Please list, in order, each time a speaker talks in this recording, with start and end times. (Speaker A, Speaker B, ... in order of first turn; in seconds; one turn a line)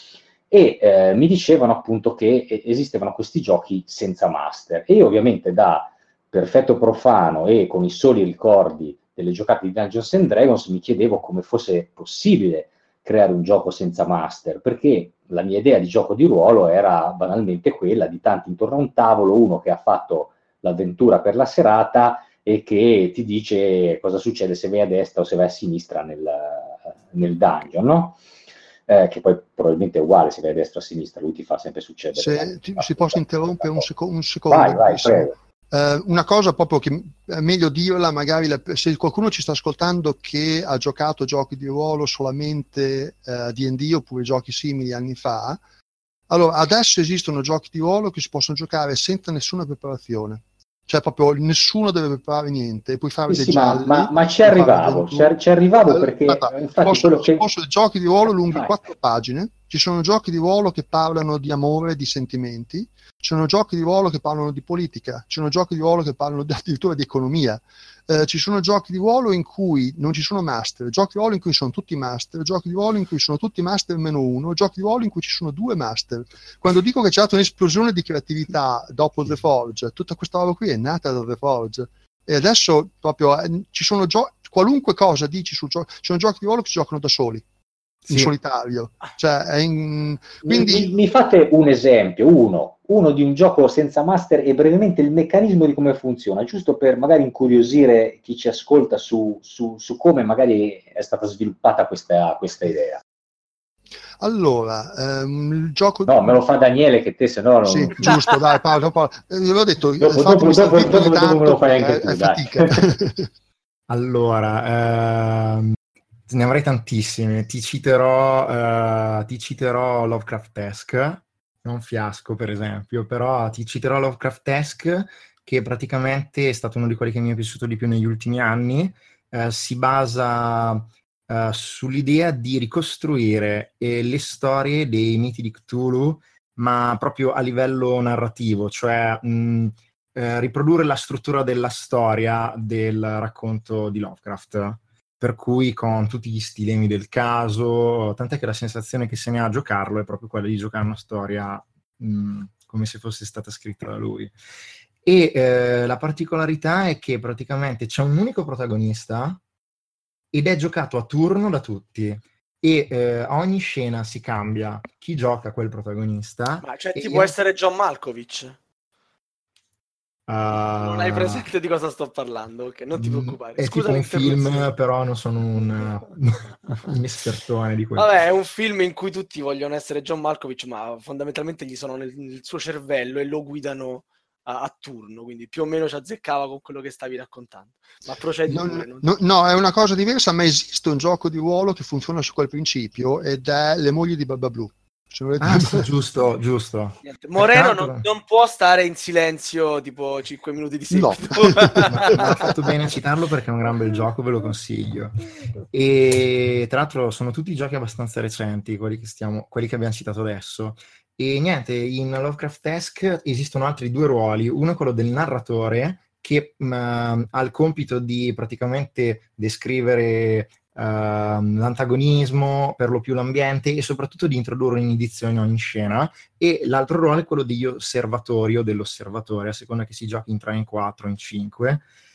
Speaker A: 0.5-28.2
Speaker A: 28.9-33.9
Speaker B: 32.1-45.6
Speaker A: 34.5-35.3
Speaker B: 46.3-55.3
Speaker A: 53.3-57.4
Speaker B: 55.9-87.4
Speaker C: 88.1-88.3
Speaker B: 88.1-90.9
Speaker A: 90.4-103.0
Speaker B: 104.2-106.4
Speaker A: 106.1-108.2
Speaker B: 107.7-113.3
Speaker A: 110.0-112.9
Speaker C: 113.9-115.8
Speaker C: 116.3-154.3
Speaker C: 155.0-159.4
Speaker C: 160.3-167.3
Speaker D: 166.6-168.6
Speaker C: 170.3-171.5
Speaker D: 170.7-174.7
Speaker C: 172.9-178.1
Speaker D: 178.0-189.1
Speaker B: 188.5-195.9
Speaker C: 195.4-198.1
Speaker D: 197.1-202.5
Speaker B: 200.9-202.5
Speaker C: 201.8-231.8